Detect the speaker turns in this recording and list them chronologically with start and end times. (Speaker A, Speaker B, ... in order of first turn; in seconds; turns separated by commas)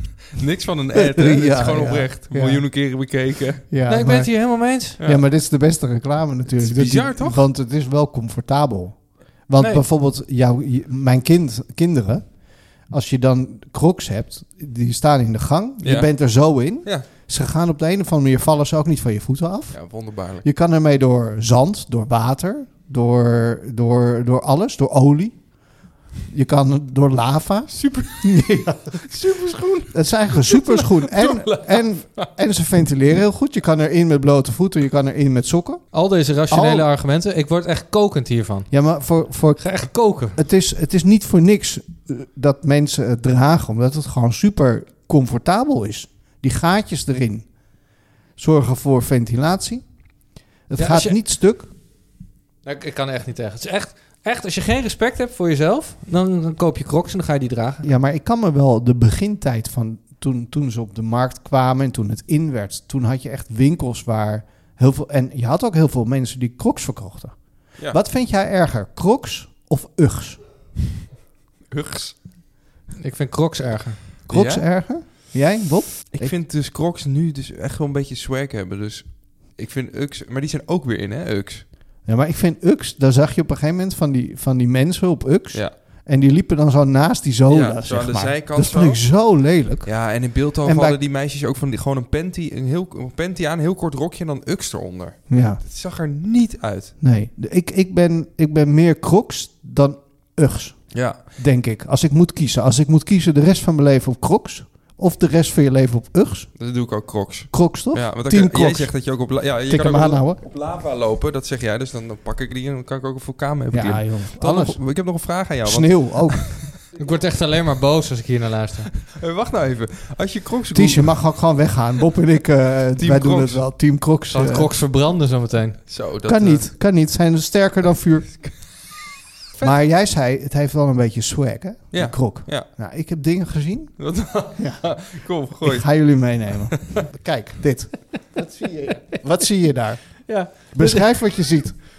Speaker A: 0.3-3.6, Speaker B: 0.9-2.7, Speaker B: 3.7-12.3, Speaker C: 3.9-5.0, Speaker A: 6.6-7.4, Speaker B: 12.9-25.4, Speaker A: 15.8-16.1, Speaker A: 19.7-20.4, Speaker B: 26.3-29.1, Speaker A: 27.7-32.3, Speaker B: 29.9-35.9, Speaker C: 35.9-38.7, Speaker B: 36.5-36.9, Speaker B: 38.7-47.5, Speaker C: 39.6-40.4, Speaker B: 48.4-49.8, Speaker B: 50.7-51.7, Speaker C: 50.8-51.2, Speaker C: 52.6-57.9, Speaker B: 57.8-70.4, Speaker A: 71.7-72.2, Speaker C: 73.0-74.0, Speaker B: 74.3-76.3, Speaker A: 74.3-74.7, Speaker A: 76.1-81.7, Speaker B: 82.0-90.0, Speaker A: 87.5-89.0, Speaker A: 89.8-97.0, Speaker B: 90.6-91.0, Speaker B: 95.3-95.6, Speaker B: 97.0-106.5, Speaker A: 100.9-101.2, Speaker A: 106.6-116.7, Speaker B: 107.5-110.4, Speaker B: 113.7-114.9, Speaker B: 115.6-116.8, Speaker C: 117.0-118.9, Speaker A: 119.1-121.2, Speaker B: 120.7-124.7, Speaker A: 123.0-123.7, Speaker C: 124.3-125.9, Speaker A: 125.9-126.7, Speaker B: 126.3-128.4, Speaker B: 129.6-135.1, Speaker A: 131.9-132.7, Speaker A: 134.0-136.9, Speaker B: 135.6-141.8, Speaker C: 138.6-139.0, Speaker C: 140.3-141.6